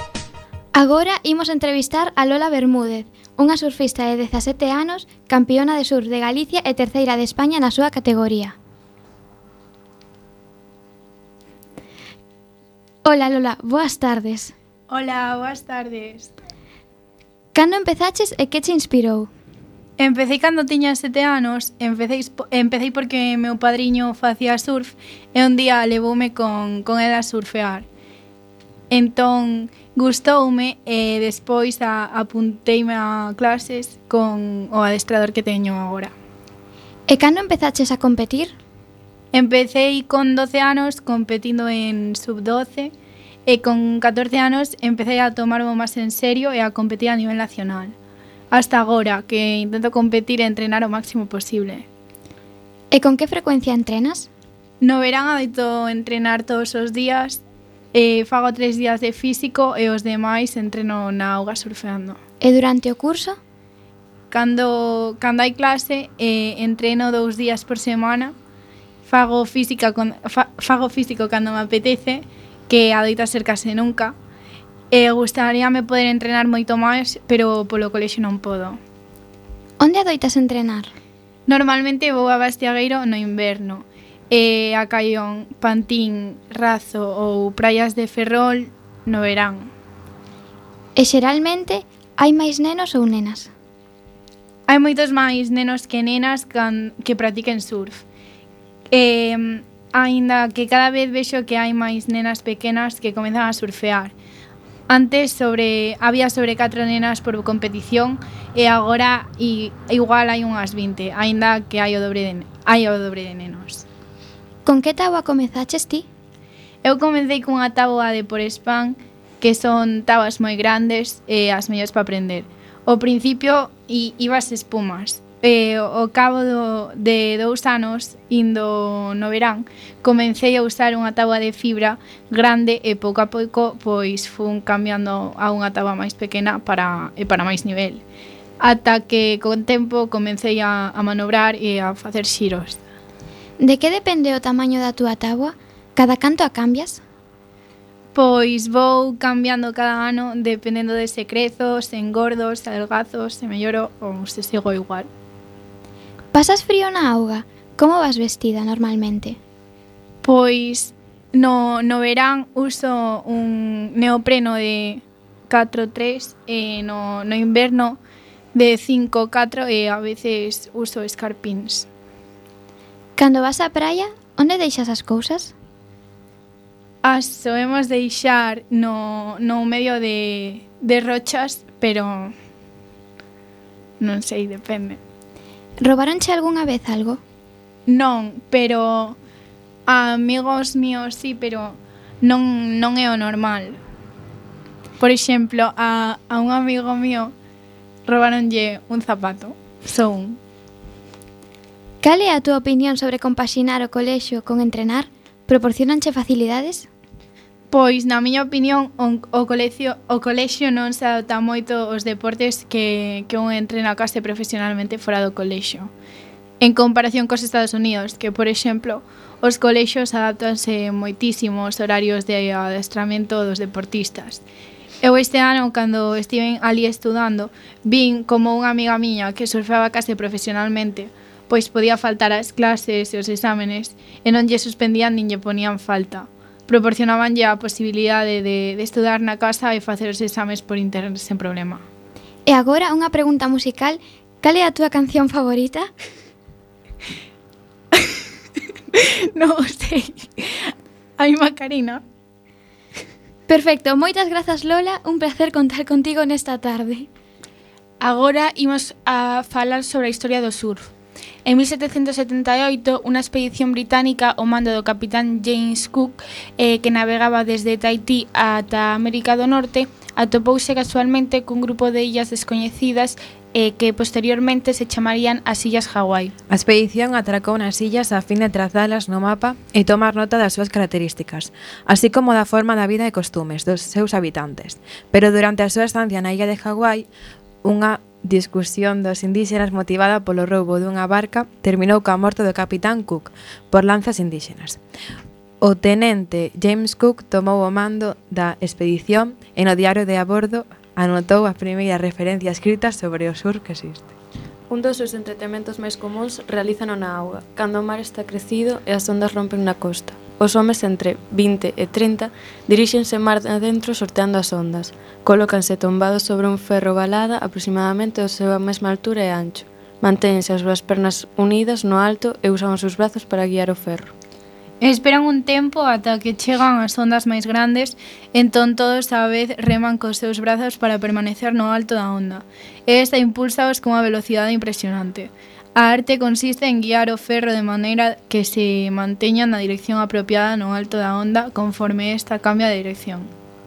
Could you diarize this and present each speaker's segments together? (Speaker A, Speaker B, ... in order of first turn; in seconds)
Speaker A: 0.7-8.6, 13.0-14.5, 17.5-19.3, 37.1-38.5, 52.9-54.3, 62.4-63.4, 79.8-80.9, 91.0-93.5, 114.6-116.1, 143.6-147.0, 156.3-159.4, 173.2-175.5, 185.8-187.2, 202.0-206.9, 242.4-245.9, 253.5-257.1
Speaker B: 14.9-16.3, 20.0-27.9, 28.9-36.1, 39.3-42.9, 43.5-48.0, 48.5-51.9, 54.8-57.4, 57.9-62.2, 64.3-68.3, 69.0-74.1, 74.9-78.8, 81.5-89.7, 94.7-98.0, 98.9-104.1, 104.9-113.8, 116.8-138.0, 138.6-142.8, 148.1-155.1, 160.2-168.0, 168.5-171.9, 177.0-182.3, 184.0-185.0, 187.9-189.2, 189.9-193.8, 195.0-197.3, 198.1-200.4, 207.7-215.9, 216.6-224.4, 225.0-241.8, 248.9-252.0, 324.8-343.3
Speaker C: 258.0-260.9, 261.4-276.3
Speaker D: 276.5-287.1, 287.6-294.8, 295.6-304.1
Speaker E: 304.7-324.1